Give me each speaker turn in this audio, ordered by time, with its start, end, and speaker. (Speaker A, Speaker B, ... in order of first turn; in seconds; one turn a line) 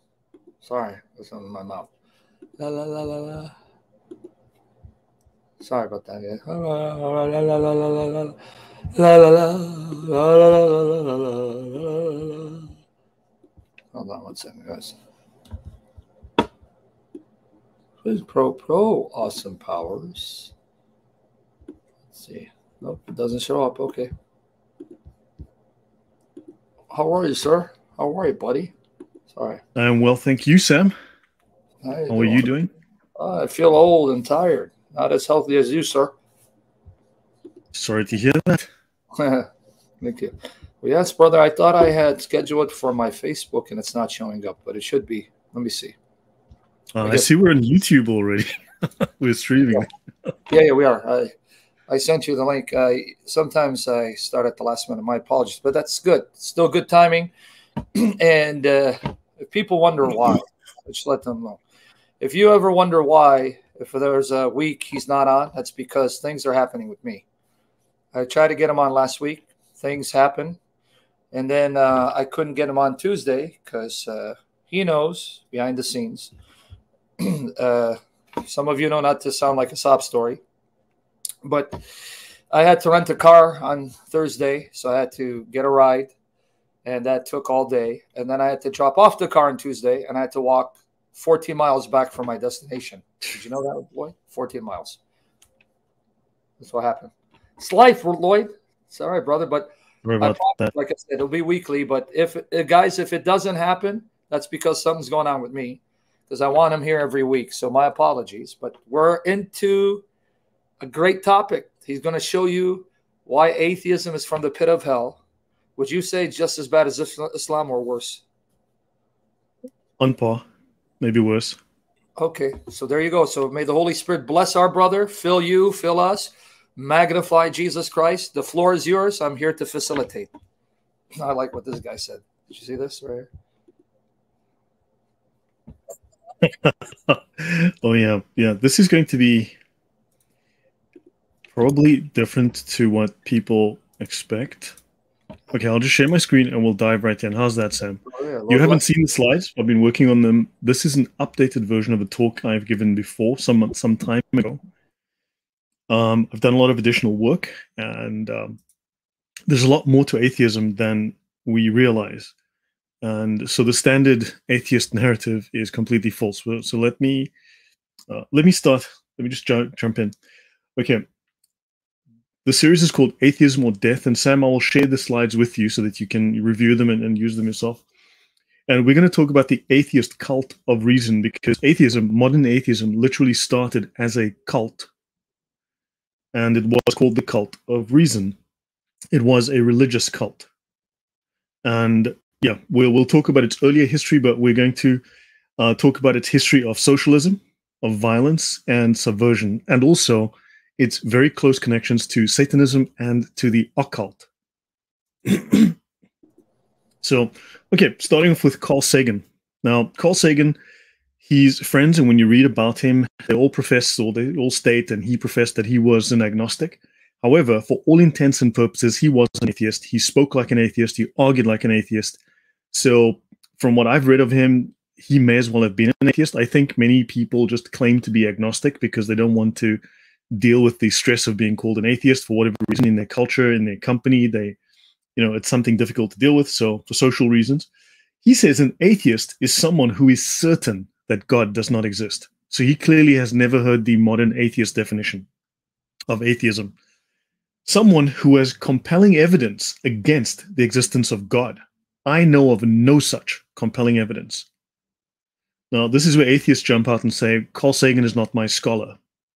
Speaker A: 0.6-1.9
Speaker A: 2.6-3.5
Speaker A: 5.6-8.3
Speaker A: 8.9-12.6
Speaker A: 13.9-14.9
Speaker A: 18.0-20.5
Speaker A: 22.1-24.1
Speaker A: 26.9-28.7
Speaker A: 29.3-29.6
Speaker B: 29.7-30.9
Speaker A: 31.8-32.5
Speaker B: 32.1-32.7
Speaker A: 33.2-36.1
Speaker B: 37.7-38.7
Speaker A: 39.1-39.5
Speaker A: 40.0-46.0
Speaker B: 46.9-48.5
Speaker B: 49.0-49.9
Speaker A: 50.5-51.3
Speaker A: 51.9-57.3
Speaker A: 57.9-61.6
Speaker A: 62.2-67.2
Speaker A: 68.1-70.6
Speaker A: 71.3-76.3
Speaker A: 77.2-80.4
Speaker A: 81.4-81.8
Speaker A: 82.5-86.1
Speaker A: 86.8-95.0
Speaker A: 96.6-110.0
Speaker B: 100.0-100.7
Speaker A: 110.8-115.2
Speaker A: 115.8-118.2
Speaker B: 120.0-120.5
Speaker B: 121.0-121.6
Speaker A: 122.2-130.3
Speaker A: 131.1-133.3
Speaker B: 136.4-139.5
Speaker B: 141.5-144.8
Speaker B: 145.5-154.6
Speaker A: 148.1-148.8
Speaker B: 155.9-158.6
Speaker B: 159.5-162.3
Speaker B: 163.0-167.3
Speaker B: 168.1-170.1
Speaker B: 170.8-171.0
Speaker B: 172.4-177.8
Speaker B: 178.7-184.9
Speaker B: 186.3-188.4
Speaker B: 189.1-190.5
Speaker B: 191.6-195.0
Speaker B: 195.6-204.3
Speaker B: 205.2-205.8
Speaker B: 207.0-210.6
Speaker B: 211.2-222.2
Speaker B: 222.7-229.8
Speaker B: 230.3-234.6
Speaker B: 235.2-237.7
Speaker B: 238.2-245.3
Speaker B: 246.1-246.7
Speaker B: 247.7-254.5
Speaker B: 255.7-259.0